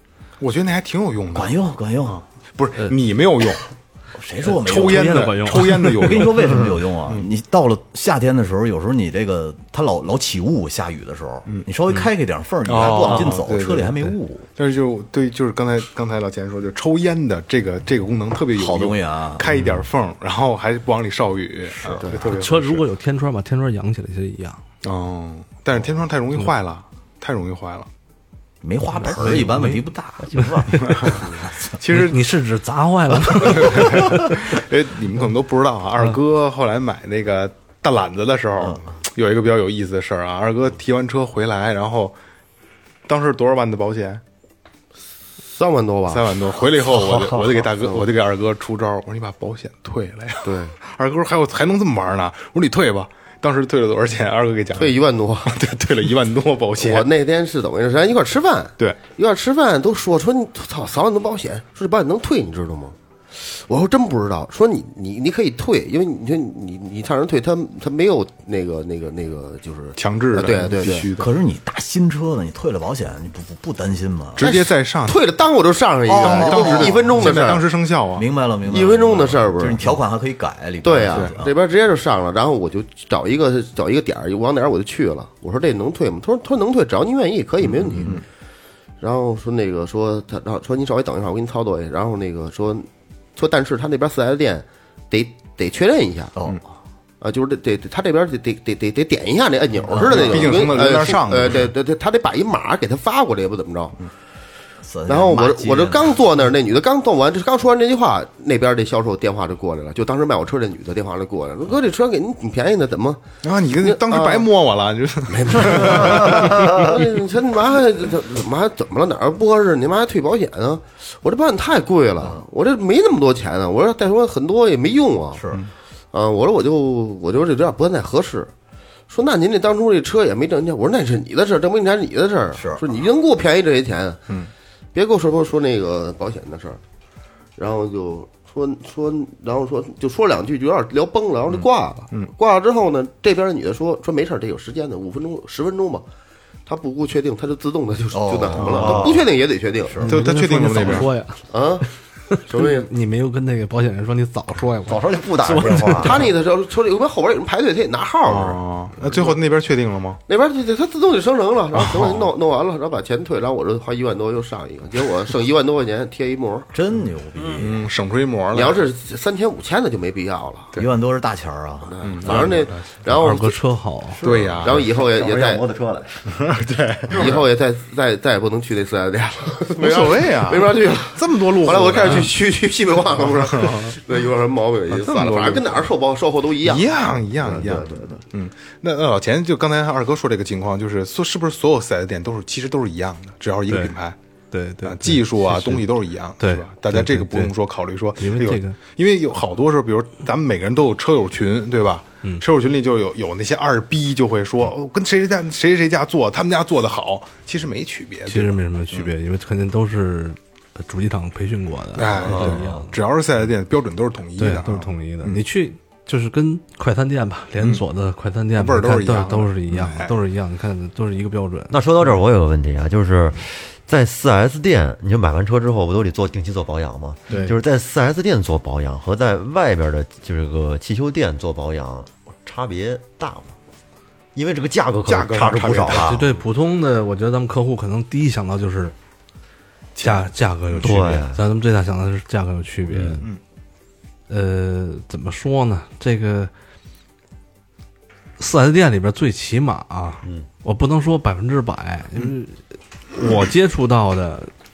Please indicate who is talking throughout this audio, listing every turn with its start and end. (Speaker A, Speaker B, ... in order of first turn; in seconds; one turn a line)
Speaker A: 0.4-3.6
Speaker B: 1.3-2.2
Speaker B: 4.1-5.3
Speaker A: 4.4-7.3
Speaker C: 4.6-6.3
Speaker B: 6.0-14.5
Speaker A: 12.6-13.9
Speaker A: 14.6-22.9
Speaker B: 18.5-19.8
Speaker B: 21.7-22.1
Speaker C: 22.2-24.6
Speaker A: 24.8-27.9
Speaker B: 28.6-30.4
Speaker C: 29.1-31.2
Speaker D: 30.2-31.2
Speaker A: 30.8-32.3
Speaker B: 31.3-31.7
Speaker C: 31.9-34.4
Speaker A: 33.3-42.1
Speaker B: 38.6-38.9
Speaker A: 43.0-44.2
Speaker E: 45.5-46.3
Speaker A: 46.1-57.1
Speaker E: 50.4-50.7
Speaker E: 54.7-55.6
Speaker E: 56.8-71.1
Speaker A: 70.0-71.3
Speaker B: 71.2-74.5
Speaker A: 74.4-75.2
Speaker E: 74.4-77.7
Speaker B: 76.1-77.2
Speaker A: 76.2-78.2
Speaker B: 78.2-81.5
Speaker E: 78.6-79.9
Speaker E: 80.8-88.2
Speaker B: 87.6-88.2
Speaker E: 89.0-96.3
Speaker B: 96.3-96.6
Speaker E: 97.2-104.0
Speaker B: 99.9-100.8
Speaker A: 100.0-101.7
Speaker B: 104.8-106.2
Speaker E: 105.1-113.2
Speaker A: 113.4-117.0
Speaker E: 113.8-114.5
Speaker E: 115.3-125.4
Speaker B: 122.2-122.4
Speaker B: 125.3-125.6
Speaker E: 126.1-128.5
Speaker E: 129.1-134.3
Speaker B: 132.5-132.9
Speaker E: 134.9-136.8
Speaker E: 137.6-146.0
Speaker E: 146.7-150.1
Speaker B: 148.1-149.2
Speaker A: 148.6-149.0
Speaker D: 148.8-149.2
Speaker B: 149.8-150.2
Speaker C: 150.0-156.3
Speaker A: 150.0-151.1
Speaker E: 151.5-151.8
Speaker E: 152.4-152.9
Speaker D: 154.9-156.3
Speaker E: 156.0-159.4
Speaker A: 158.2-160.2
Speaker E: 160.3-166.7
Speaker A: 161.7-162.3
Speaker B: 166.7-167.9
Speaker A: 167.6-168.8
Speaker E: 168.5-170.7
Speaker B: 170.8-172.6
Speaker E: 171.9-173.6
Speaker A: 172.0-172.9
Speaker C: 173.1-174.2
Speaker B: 174.2-174.9
Speaker A: 174.2-174.8
Speaker E: 174.6-175.6
Speaker D: 174.9-176.2
Speaker A: 176.3-177.4
Speaker E: 177.1-188.2
Speaker A: 179.8-182.3
Speaker A: 183.2-183.9
Speaker A: 184.9-185.8
Speaker A: 186.6-194.2
Speaker C: 193.7-193.9
Speaker C: 194.5-195.8
Speaker A: 194.8-209.1
Speaker C: 196.4-197.5
Speaker C: 198.2-198.8
Speaker C: 208.3-212.9
Speaker A: 211.9-215.4
Speaker D: 212.3-212.5
Speaker C: 214.4-221.8
Speaker A: 217.6-217.8
Speaker A: 218.5-220.2
Speaker D: 221.7-233.5
Speaker C: 227.3-227.5
Speaker D: 234.3-236.2
Speaker A: 235.1-236.2
Speaker C: 235.9-238.9
Speaker A: 239.9-241.1
Speaker C: 240.0-243.3
Speaker D: 240.8-241.4
Speaker A: 243.0-243.4
Speaker C: 244.3-246.5
Speaker C: 248.4-254.5